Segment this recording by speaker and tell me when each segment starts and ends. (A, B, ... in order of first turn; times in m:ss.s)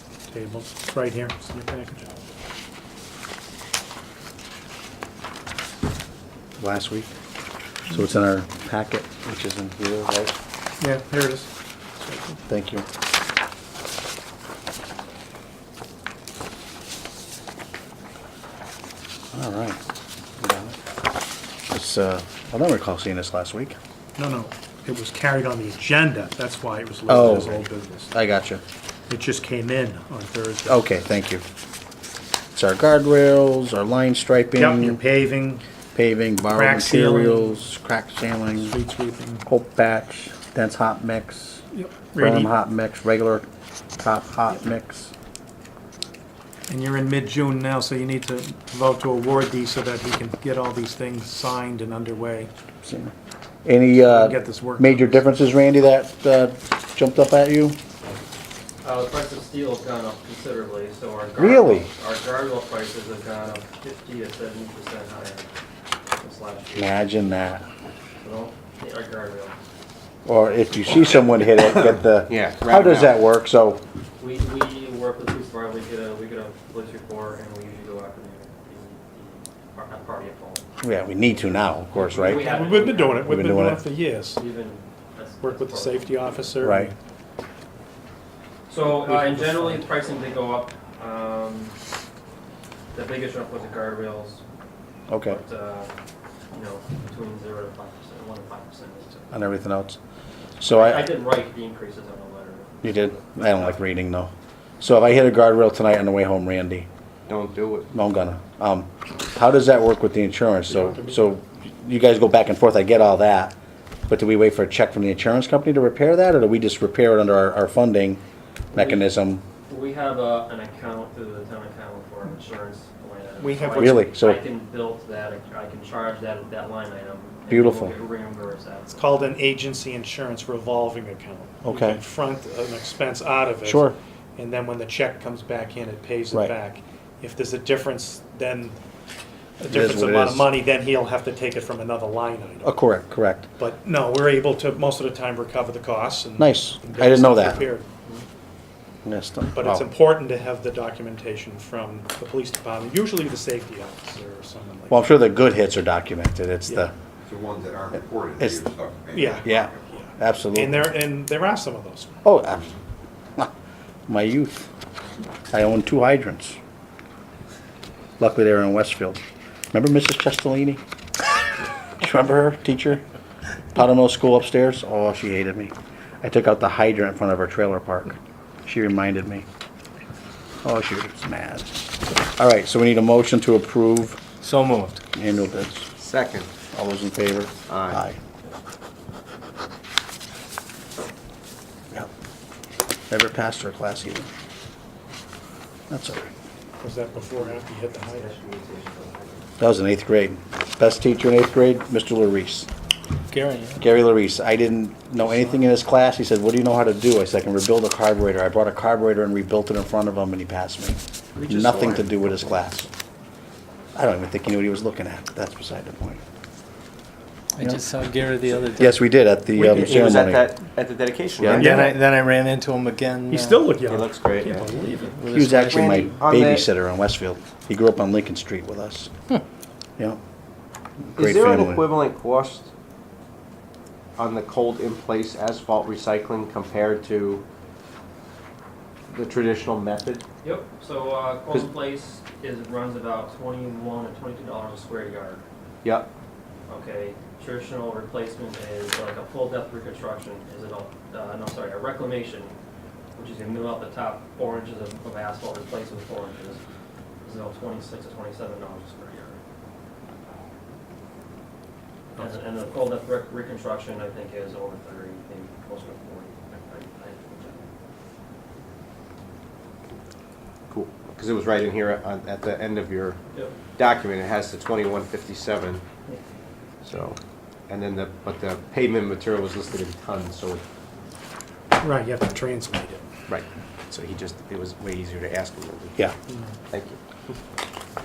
0:00.3-0:02.1 A
0:06.6-0:07.1 B
0:07.9-0:10.3 B
0:10.8-0:11.5 A
0:12.0-0:12.4 A
0:12.5-0:12.8 B
0:19.3-0:19.8 B
0:20.4-0:20.8 B
0:21.7-0:23.8 B
0:24.2-0:28.1 A
0:27.1-0:28.6 B
0:29.1-0:30.8 A
0:30.6-0:31.4 B
0:32.5-0:35.0 B
0:34.6-0:35.6 A
0:35.9-0:38.8 B
0:36.5-0:37.6 A
0:38.5-0:39.5 A
0:39.4-0:41.6 B
0:41.7-0:42.5 A
0:42.2-0:43.4 B
0:44.0-0:45.1 B
0:46.7-0:52.5 A
0:52.8-0:53.1 B
0:53.6-0:57.8 B
0:54.0-0:55.2 A
0:58.8-1:05.5 C
1:01.4-1:01.9 B
1:06.2-1:07.0 C
1:06.8-1:07.6 B
1:08.2-1:09.6 C
1:10.2-1:13.8 B
1:11.7-1:13.1 D
1:14.2-1:20.6 C
1:20.8-1:22.4 B
1:21.9-1:24.4 A
1:21.9-1:23.3 C
1:23.2-1:23.8 B
1:24.4-1:26.5 C
1:25.4-1:26.9 A
1:26.6-1:26.9 B
1:28.7-1:31.8 C
1:29.0-1:29.8 A
1:32.9-1:34.4 C
1:35.1-1:35.4 B
1:35.2-1:35.9 C
1:36.5-1:39.4 C
1:39.3-1:40.0 B
1:40.6-1:41.1 B
1:40.6-1:43.7 C
1:42.8-1:46.9 B
1:47.3-1:47.9 D
1:47.9-1:53.6 B
1:50.9-1:51.3 A
1:54.1-1:58.2 B
1:58.7-1:59.0 C
1:58.7-1:59.4 B
1:59.7-2:09.0 C
2:03.4-2:04.1 D
2:03.8-2:04.4 B
2:07.5-2:08.0 B
2:08.9-2:18.8 A
2:11.6-2:12.0 B
2:13.6-2:14.0 B
2:19.6-2:22.7 A
2:19.6-2:20.5 B
2:22.6-2:23.5 B
2:23.6-2:27.8 A
2:26.4-2:27.6 B
2:29.0-2:29.8 B
2:29.5-2:35.0 A
2:34.9-2:36.9 B
2:37.2-2:40.0 E
2:38.4-2:38.6 B
2:39.1-2:39.6 A
2:39.4-2:40.8 B
2:40.5-2:42.2 A
2:42.2-2:42.8 B
2:44.1-2:44.7 B
2:45.5-2:46.6 B
2:48.2-2:49.2 B
2:49.7-2:50.8 B
2:52.0-2:53.0 B
2:53.7-2:59.4 B
3:00.6-3:04.2 B
3:04.4-3:05.0 F
3:05.1-3:05.9 B
3:06.0-3:06.5 D
3:06.7-3:08.2 B
3:07.7-3:08.0 D
3:13.1-3:14.3 B
3:15.9-3:16.3 B
3:16.8-3:18.3 A
3:18.1-3:19.5 D
3:19.6-3:22.7 B
3:23.3-3:23.8 F
3:23.8-3:32.9 B
3:31.7-3:32.0 D
3:33.9-3:36.2 B
3:37.5-3:39.0 F
3:38.7-3:40.5 B
3:39.6-3:41.6 D
3:41.4-3:41.6 B
3:41.4-3:43.7 F
3:41.5-3:42.0 A
3:43.3-3:45.2 A
3:43.8-3:44.8 D
3:45.0-3:46.2 F
3:45.3-3:49.1 B
3:45.7-3:46.6 D
3:51.0-3:51.9 B
3:51.2-3:52.7 D
3:54.2-3:57.4 D
3:59.1-4:00.2 D
4:00.4-4:05.4 C
4:05.8-4:06.1 D
4:06.7-4:12.6 C
4:13.2-4:16.6 C
4:17.2-4:19.4 C
4:22.2-4:27.7 C
4:30.7-4:33.2 D
4:33.8-4:35.8 D
4:36.8-4:37.2 D
4:37.7-4:40.6 D
4:41.8-4:43.0 A
4:43.3-4:46.0 D
4:46.7-4:47.0 D